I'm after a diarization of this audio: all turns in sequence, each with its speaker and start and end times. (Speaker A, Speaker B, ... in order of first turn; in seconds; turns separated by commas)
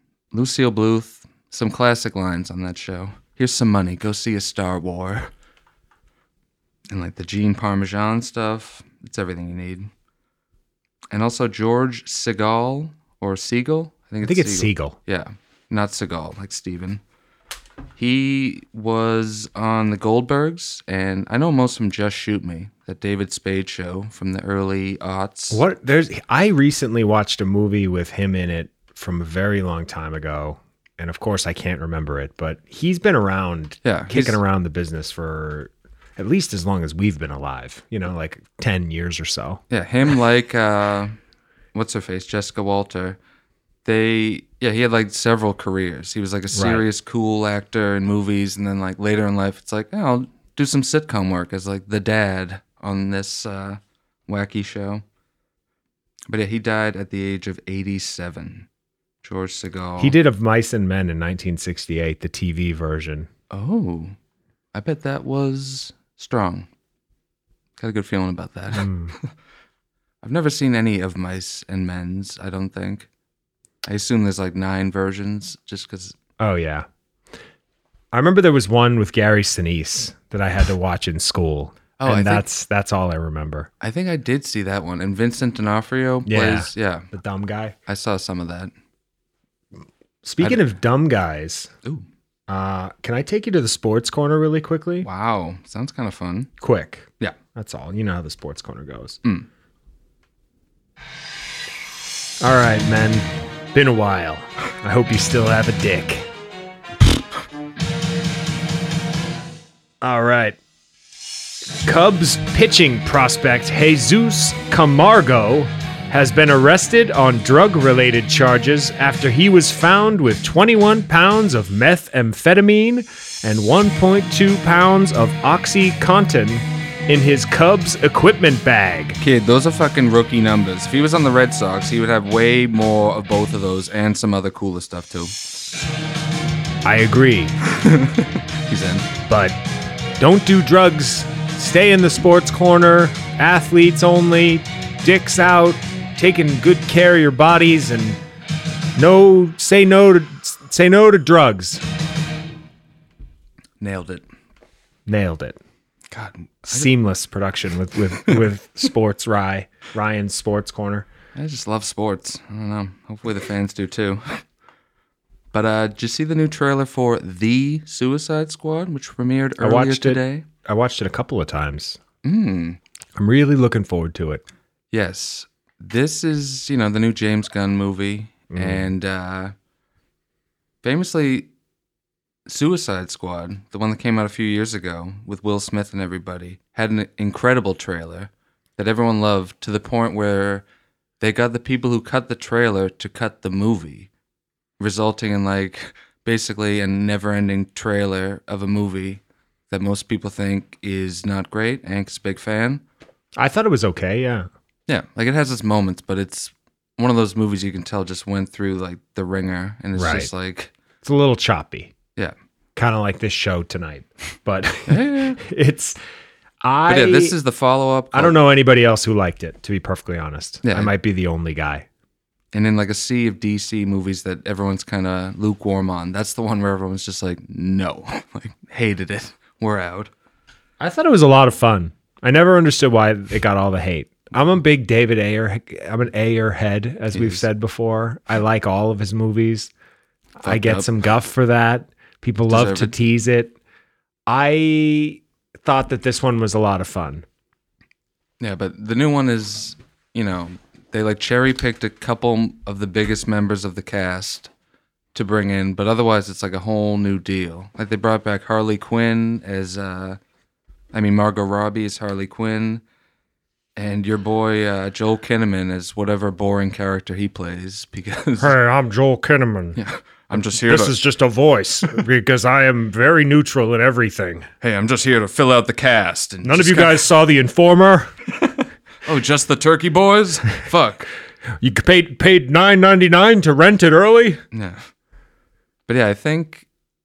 Speaker A: 0.3-5.3, Speaker A: 6.9-9.9, Speaker A: 11.1-17.0, Speaker B: 14.2-15.0, Speaker A: 18.0-25.6, Speaker B: 25.5-39.6, Speaker A: 33.8-34.4, Speaker A: 39.7-41.2, Speaker A: 41.7-43.2, Speaker A: 43.8-55.0, Speaker B: 46.5-46.8, Speaker A: 56.3-58.7, Speaker A: 59.2-60.1, Speaker B: 60.0-63.3, Speaker A: 63.5-64.2, Speaker A: 64.7-66.7, Speaker A: 67.8-69.3, Speaker B: 68.7-69.1, Speaker A: 70.2-73.1, Speaker A: 73.8-76.2, Speaker B: 76.4-76.8, Speaker B: 78.1-83.7, Speaker A: 82.0-82.5, Speaker A: 83.8-87.1, Speaker B: 86.2-87.7, Speaker A: 87.8-88.7, Speaker B: 90.2-91.7, Speaker A: 90.4-90.7, Speaker B: 92.5-95.1, Speaker A: 95.0-96.5, Speaker B: 96.6-99.2, Speaker B: 102.4-106.3, Speaker B: 110.0-110.6, Speaker B: 111.7-129.2, Speaker A: 129.2-135.3, Speaker B: 136.8-137.6, Speaker A: 137.7-139.1, Speaker B: 139.3-139.6, Speaker B: 140.2-148.2, Speaker B: 148.9-151.8, Speaker A: 153.8-154.2, Speaker B: 155.1-155.6, Speaker A: 156.1-156.9, Speaker B: 156.7-161.1, Speaker A: 161.3-164.4, Speaker A: 165.5-170.4, Speaker B: 169.6-172.0, Speaker A: 172.2-172.8, Speaker B: 173.1-174.4, Speaker A: 174.9-179.5, Speaker B: 178.5-178.9, Speaker A: 180.8-181.5, Speaker A: 182.5-190.6, Speaker A: 191.2-194.1, Speaker A: 194.8-202.8, Speaker B: 203.3-204.5, Speaker A: 204.9-210.7, Speaker B: 209.9-210.3, Speaker B: 211.0-211.9, Speaker B: 212.8-216.0, Speaker A: 214.9-215.4, Speaker B: 216.6-217.3, Speaker A: 216.9-218.3, Speaker B: 218.1-221.8, Speaker A: 220.6-220.9, Speaker A: 222.5-230.1, Speaker B: 230.8-239.7, Speaker A: 237.1-237.4, Speaker B: 240.4-243.6, Speaker A: 240.4-240.9, Speaker A: 242.5-242.9, Speaker B: 244.3-247.2, Speaker A: 248.4-254.5, Speaker A: 255.1-260.2, Speaker A: 260.9-262.8, Speaker A: 263.8-268.5, Speaker B: 268.4-269.8, Speaker A: 269.8-271.0, Speaker B: 270.3-274.5, Speaker A: 274.6-277.1, Speaker B: 276.4-278.1, Speaker A: 279.0-281.1, Speaker B: 281.6-284.4, Speaker A: 284.5-284.9, Speaker A: 285.9-286.6